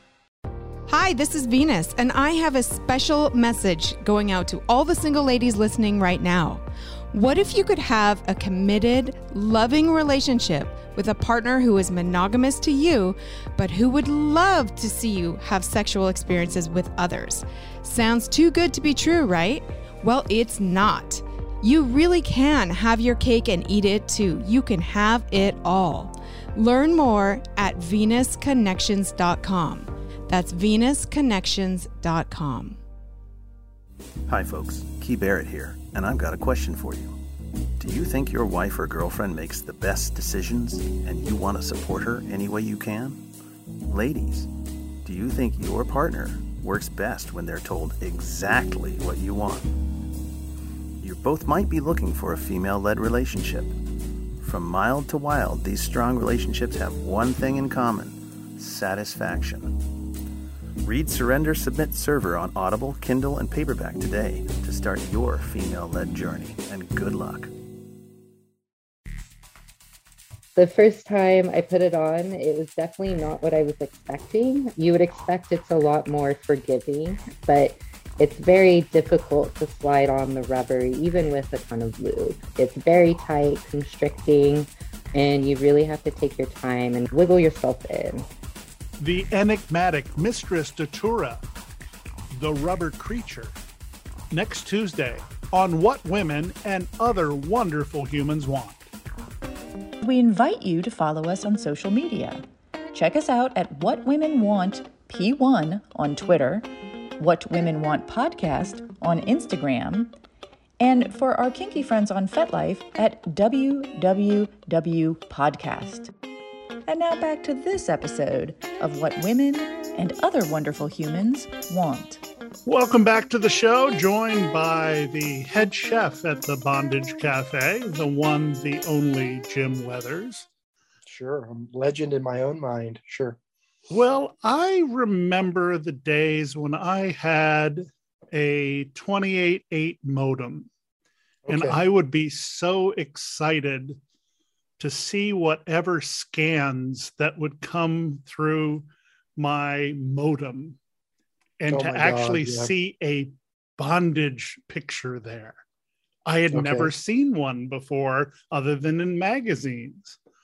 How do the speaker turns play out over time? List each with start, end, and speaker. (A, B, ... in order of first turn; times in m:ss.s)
0:00.9-0:32.8 A
0:34.3-0:37.2 B
0:37.8-0:43.2 B
0:43.8-0:44.5 B
0:45.0-0:49.8 B
0:51.0-0:53.7 B
0:54.4-0:59.8 B
1:00.8-1:07.5 B
1:10.6-1:28.3 C
1:29.0-1:31.4 D
1:32.3-1:33.5 D
1:34.3-1:38.9 D
1:40.0-1:50.1 E
1:50.8-1:56.1 E
1:56.8-2:02.2 E
2:02.6-2:10.4 D
2:11.1-2:13.4 F
2:13.9-2:20.7 D
2:21.4-2:21.8 F
2:21.5-2:24.0 D
2:24.8-2:30.8 D
2:31.6-2:35.6 D
2:31.7-2:32.7 F
2:36.2-2:40.2 D
2:36.5-2:36.9 F